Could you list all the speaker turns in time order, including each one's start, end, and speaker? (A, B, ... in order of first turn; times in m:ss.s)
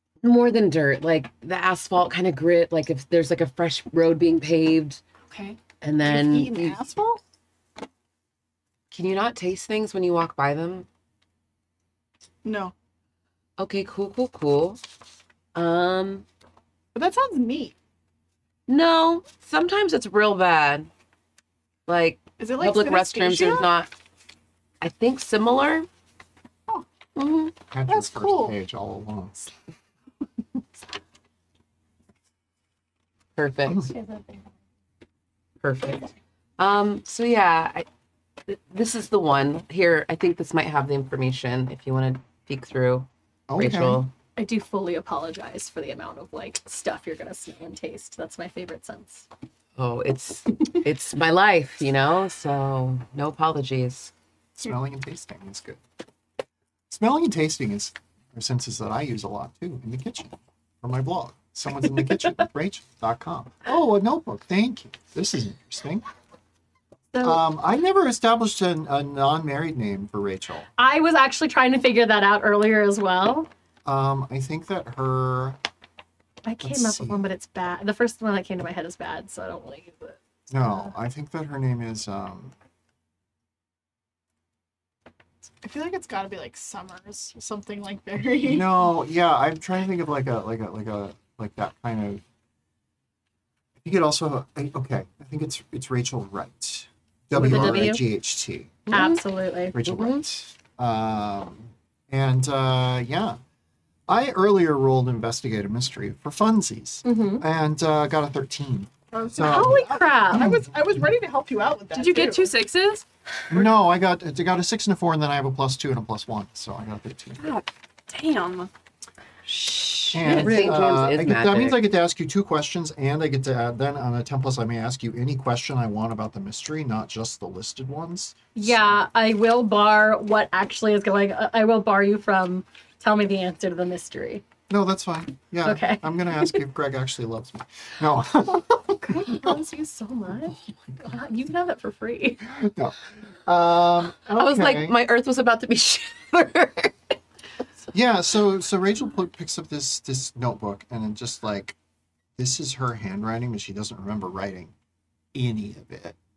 0:00.2-0:05.0 A
0:05.3-0:05.6 B
0:05.8-0:06.8 A
0:06.0-0:07.2 C
0:08.9-0:10.9 A
0:12.4-0:12.7 C
0:13.6-0:14.8 A
0:15.5-0:16.2 A
0:16.9-0:17.7 C
0:18.7-0:20.9 A
0:21.9-0:23.9 A
0:22.4-0:23.7 C
0:24.8-0:25.9 A
0:27.2-0:27.5 A
0:27.7-0:29.5 D
0:27.9-0:28.6 C
0:33.4-0:33.9 A
0:33.9-0:34.5 E
0:35.6-0:37.8 A
0:38.5-0:44.1 A
0:43.5-0:44.0 D
0:44.4-0:49.3 E
0:49.8-0:54.1 A
0:54.6-0:55.8 D
0:56.9-1:06.0 D
1:07.1-1:07.4 E
1:07.2-1:10.7 D
1:10.8-1:13.5 E
1:13.8-1:15.6 D
1:16.4-1:20.9 E
1:16.6-1:17.2 D
1:20.5-1:22.5 D
1:25.6-1:28.7 C
1:28.4-1:32.2 D
1:33.8-1:39.1 D
1:37.3-1:38.0 E
1:37.4-1:37.9 A
1:38.9-1:39.8 E
1:38.9-1:39.2 A
1:39.7-1:43.4 D
1:39.8-1:40.2 A
1:44.1-1:49.8 D
1:47.0-1:47.4 E
1:49.1-1:52.5 C
1:49.4-1:50.6 E
1:51.9-1:53.0 B
1:53.5-1:57.4 D
1:57.4-1:58.7 B
2:00.1-2:09.0 D
2:00.1-2:00.5 B
2:00.2-2:01.8 A
2:08.5-2:14.4 E
2:14.7-2:19.5 D
2:15.6-2:16.6 E
2:18.7-2:22.4 E
2:22.4-2:24.9 D
2:24.3-2:27.1 A
2:27.9-2:31.8 D
2:32.4-2:34.7 D
2:35.3-2:36.2 D